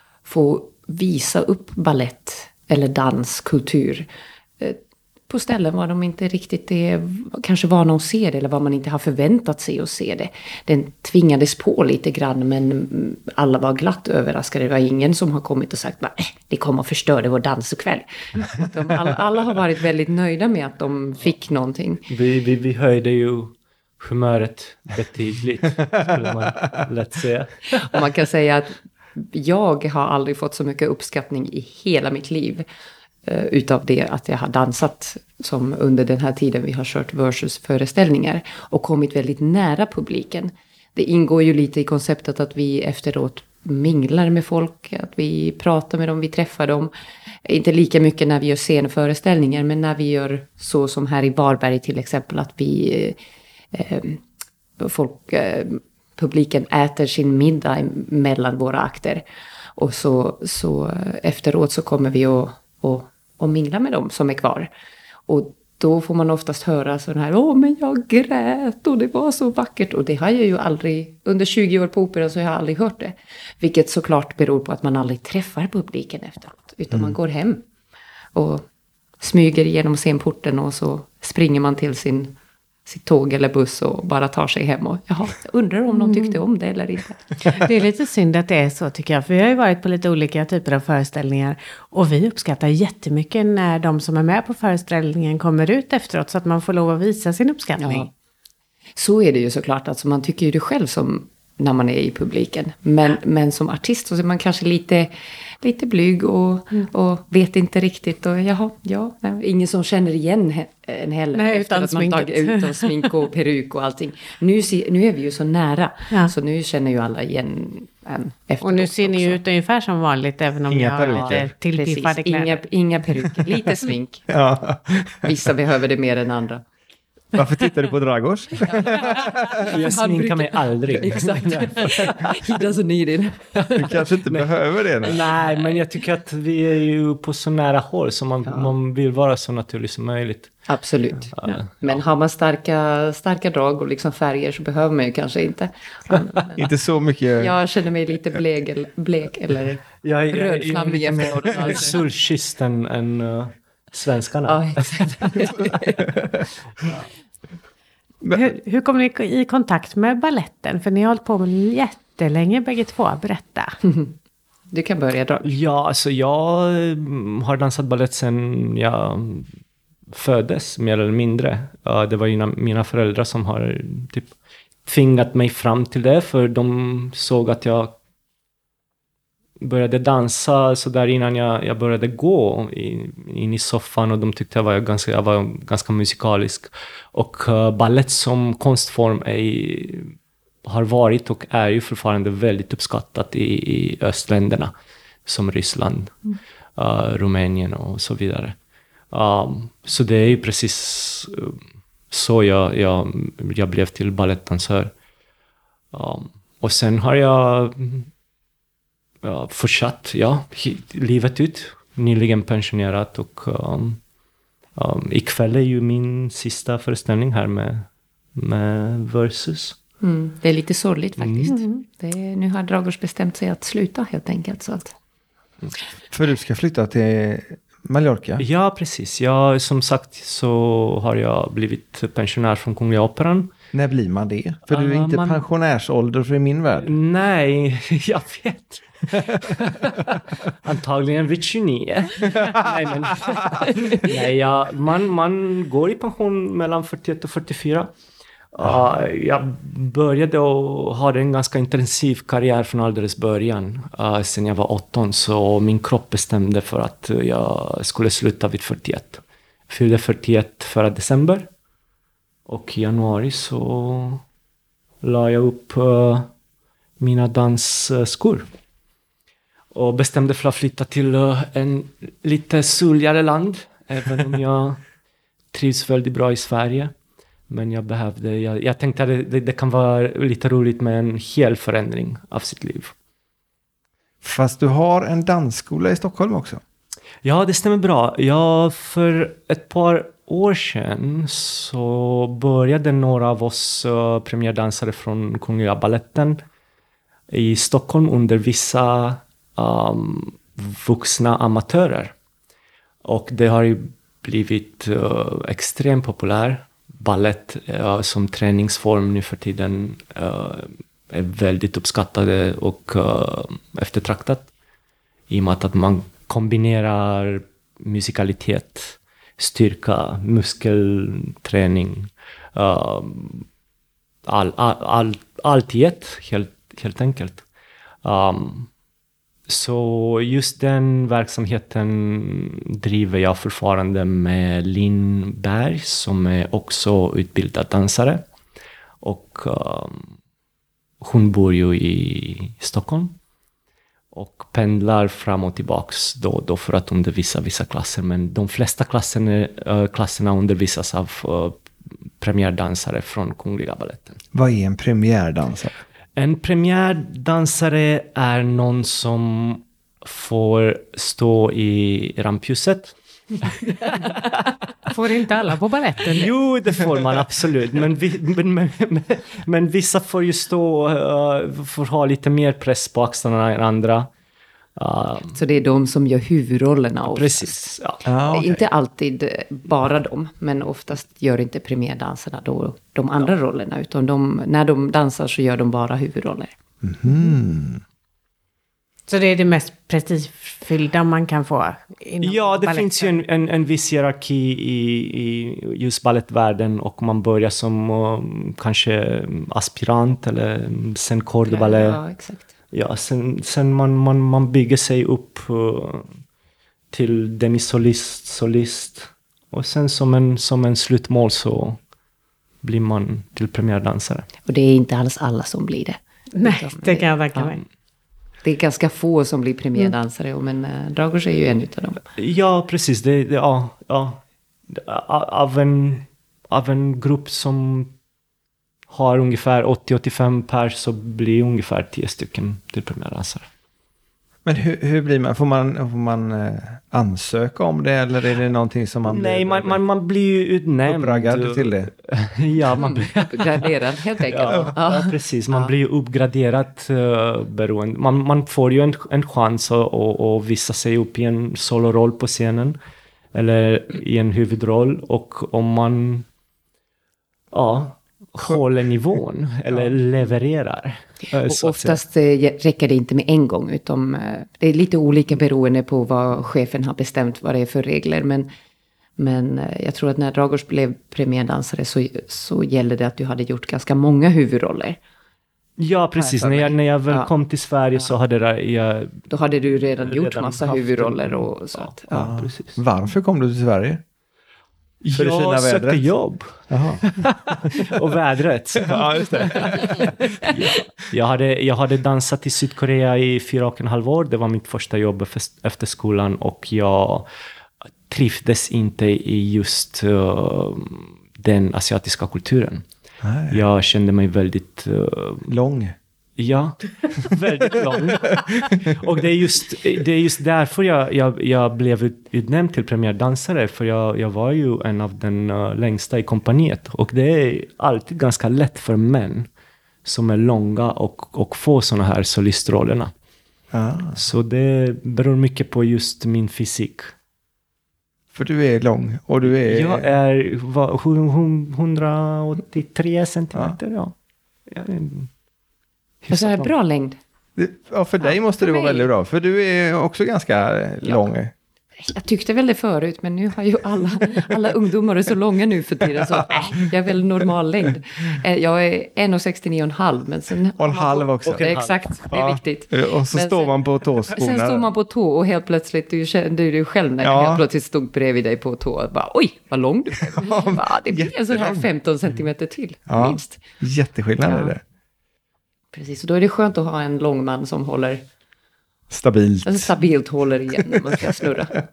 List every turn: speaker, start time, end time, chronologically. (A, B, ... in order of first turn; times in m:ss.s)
0:00.2-0:04.1 A
0:05.3-0:22.0 A
0:22.1-0:28.0 B
0:27.9-0:32.7 A
0:33.2-0:46.9 A
0:47.4-0:53.2 A
0:53.7-0:54.2 A
0:54.8-0:59.2 A
0:59.8-1:04.7 A
1:05.3-1:17.6 A
1:18.4-1:18.6 A
1:19.2-1:22.4 A
1:22.9-1:27.4 A
1:27.5-1:38.1 C
1:37.8-1:38.1 A
1:39.0-1:45.1 A
1:45.6-1:59.4 A
1:51.4-1:53.1 C
1:58.6-2:02.6 C
2:00.7-2:01.5 D
2:01.1-2:01.4 B
2:01.7-2:04.3 A
2:04.3-2:05.4 D
2:05.2-2:06.6 A
2:07.4-2:09.7 D
2:08.6-2:14.1 A
2:09.7-2:12.6 B
2:13.8-2:15.2 D
2:14.3-2:20.7 B
2:18.4-2:18.7 A
2:20.7-2:26.7 A
2:21.3-2:22.0 B
2:26.6-2:27.5 D
2:27.4-2:32.0 A
2:30.0-2:36.0 B
2:34.5-2:36.1 A
2:38.3-2:43.8 C
2:43.9-2:44.1 A
2:44.7-2:45.5 A
2:45.4-2:49.5 B
2:50.1-2:54.3 B
2:54.9-2:58.0 B
2:59.6-3:14.7 B
3:15.3-3:18.6 B
3:19.1-3:21.6 B
3:22.1-3:24.9 B
3:25.9-3:28.1 B
3:29.2-3:34.0 B
3:34.8-3:39.8 B
3:40.0-3:44.9 A
3:41.2-3:41.5 B
3:41.5-3:41.8 C
3:46.1-3:48.4 D
3:48.4-3:53.5 B
3:53.7-3:56.9 D
3:54.7-3:55.5 B
3:56.8-4:07.9 B
4:03.8-4:04.0 A
4:08.5-4:21.5 B
4:22.5-4:24.2 B
4:25.0-4:26.3 B
4:27.0-4:28.5 B
4:29.7-4:34.8 B
4:35.5-4:36.9 B
4:37.5-4:43.0 B
4:44.2-4:46.6 D
4:47.2-4:56.4 B
4:57.3-5:02.1 B
5:03.0-5:14.5 B
5:15.3-5:23.5 B
5:24.3-5:27.4 B
5:28.0-5:28.7 B
5:29.5-5:38.2 B
5:39.0-5:40.1 B
5:41.0-5:43.2 B
5:44.1-5:51.6 B
5:52.2-5:54.2 B
5:54.3-5:55.7 D
5:56.2-6:04.5 B
6:04.9-6:06.3 C
6:06.1-6:14.1 B
6:14.8-6:15.4 B
6:15.3-6:17.7 A
6:17.1-6:18.0 B
6:18.1-6:18.6 D
6:18.3-6:26.5 A
6:26.8-6:27.8 D
6:29.1-6:33.1 C
6:32.2-6:42.0 B
6:41.5-6:42.4 A
6:42.7-6:46.2 B
6:46.9-6:51.8 B
6:52.6-6:54.3 B
6:54.5-6:57.6 A
6:56.4-6:57.6 C
6:58.4-7:02.0 A
7:02.2-7:08.0 B
7:08.9-7:13.5 B
7:14.4-7:19.8 D
7:19.1-7:23.7 B
7:20.9-7:21.9 D
7:22.8-7:25.7 A
7:24.2-7:32.8 B
7:33.3-7:36.3 B
7:37.5-7:42.0 B
7:41.5-7:48.5 A
7:49.2-7:55.0 A
7:55.8-7:59.3 B
7:56.2-7:57.3 A
7:59.3-8:02.3 A
8:00.0-8:02.8 B
8:02.1-8:04.0 D
8:05.0-8:17.3 B
8:05.1-8:06.1 D
8:06.7-8:07.0 D
8:08.9-8:10.1 D
8:09.8-8:10.5 A
8:18.1-8:22.8 B
8:23.2-8:23.6 D
8:23.5-8:25.6 B
8:25.5-8:26.0 D
8:26.4-8:39.5 B
8:40.0-8:43.1 B
8:43.7-8:44.2 D
8:44.2-8:47.1 B
8:48.3-8:50.1 D
8:49.4-8:54.1 B
8:54.7-8:55.3 B
8:56.2-8:56.7 B
8:56.3-8:57.2 A
8:57.6-9:01.5 D
8:58.2-8:59.1 A
9:02.0-9:13.7 A
9:10.8-9:11.7 D
9:11.4-9:12.0 B
9:12.3-9:14.9 D
9:14.3-9:23.6 A
9:17.2-9:17.6 D
9:20.3-9:21.9 D
9:23.1-9:24.8 D
9:24.4-9:24.8 A
9:25.9-9:28.3 A
9:29.1-9:29.9 D
9:29.6-9:31.8 A
9:30.9-9:31.2 D